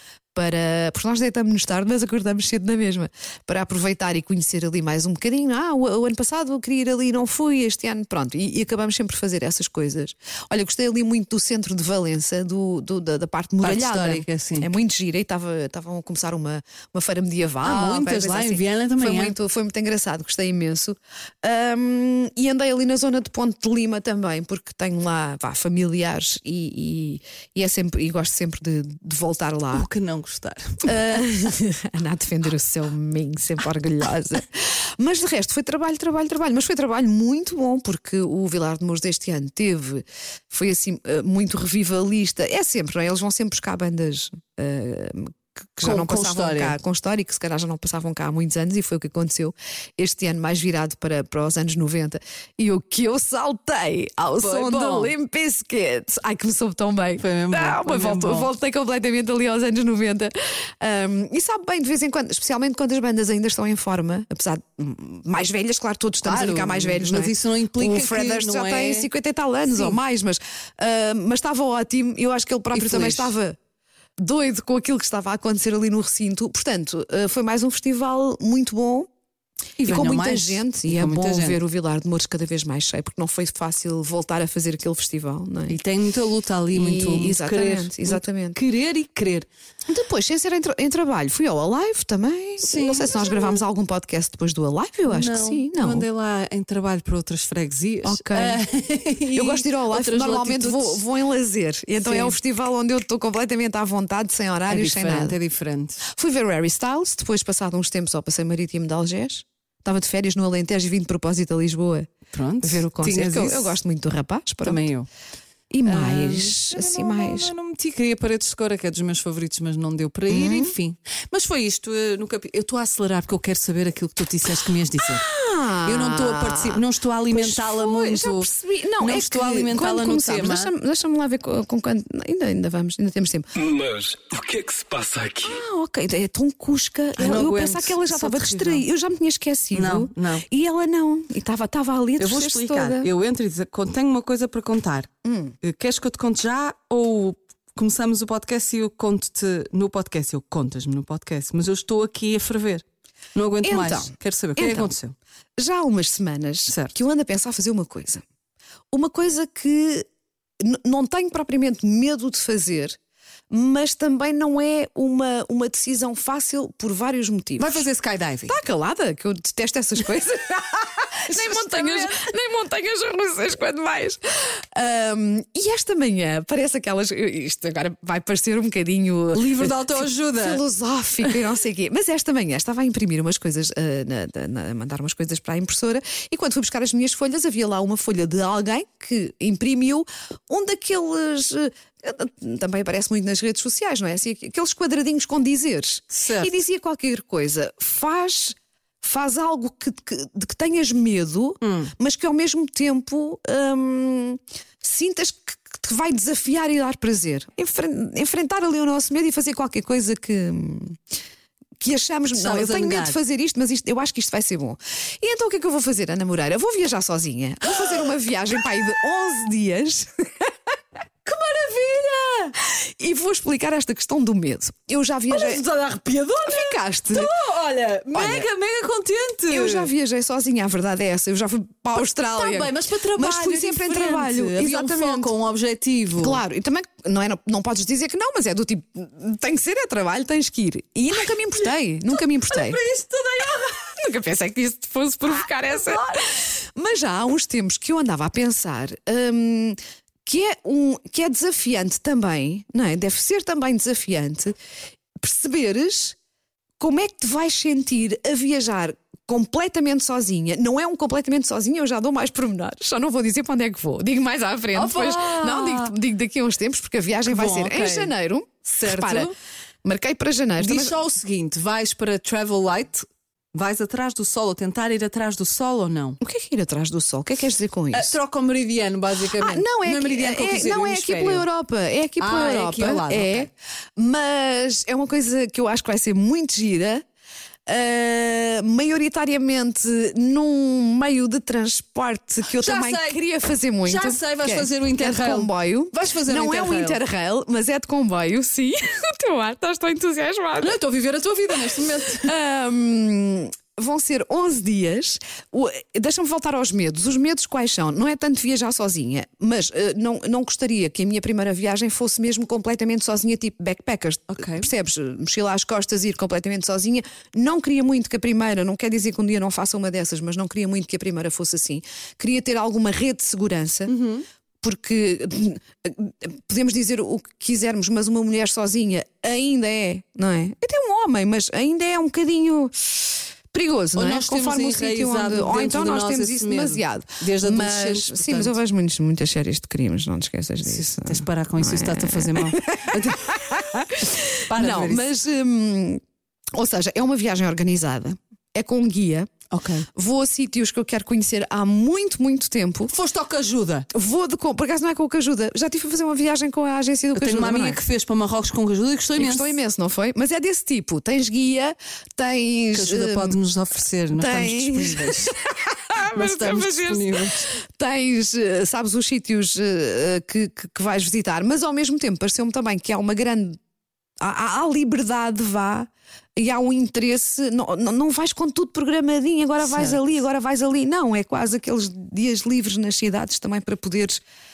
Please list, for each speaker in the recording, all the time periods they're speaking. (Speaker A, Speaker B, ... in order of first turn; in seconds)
Speaker A: 0.3-29.9, 30.8-73.6, 74.2-79.1, 79.8-85.8, 86.7-88.6, 89.9-96.0, 98.0-98.6, 99.3-105.4, 106.0-112.1, 112.6-114.9, 115.7-117.5, 120.3-120.7, 125.0-133.5, 135.4-143.1, 145.2-145.6, 153.6-154.9, 155.6-158.2, 158.9-160.1, 160.6-163.0, 163.5-167.9, 168.5-211.0, 211.8-220.5, 222.6-225.6, 226.4-227.3, 228.1-228.5, 229.5-235.3, 236.2-242.8, 243.8-254.6, 255.2-256.2, 256.8-269.3, 269.8-271.0, 276.2-278.1, 279.4-287.1, 287.7-300.8, 301.5-323.9, 324.6-346.0, 346.5-349.3, 349.9-352.9, 353.9-357.8, 359.2-363.4, 364.1-373.6, 374.2-384.2
Speaker B: 13.6-14.7, 17.6-19.4, 29.7-31.2, 45.8-46.8, 54.4-55.1, 57.2-58.5, 66.2-69.1, 69.7-70.0, 72.7-73.3, 79.8-81.6, 85.7-89.5, 92.6-93.6, 95.1-101.0, 102.0-102.3, 104.7-106.0, 112.3-113.8, 114.6-115.1, 115.9-125.3, 125.8-128.5, 129.0-130.7, 137.2-138.8, 139.7-140.5, 142.2-152.8, 153.3-155.2, 156.7-156.9, 167.6-168.6, 171.3-172.2, 179.3-180.6, 196.1-196.5, 201.6-201.9, 212.3-213.2, 221.2-222.6, 225.3-229.9, 232.2-236.4, 241.6-243.9, 245.3-246.4, 264.8-265.9, 267.3-268.1, 268.6-269.3, 270.6-276.2, 277.9-281.5, 282.2-283.5, 292.5-293.2, 293.9-297.0, 300.6-302.3, 314.3-314.7, 323.9-324.3, 333.9-338.6, 340.6-343.6, 344.4-345.1, 349.5-349.9, 352.9-353.9, 357.1-359.6, 362.7-365.4, 366.1-367.5, 379.6-380.0
Speaker C: 133.6-135.6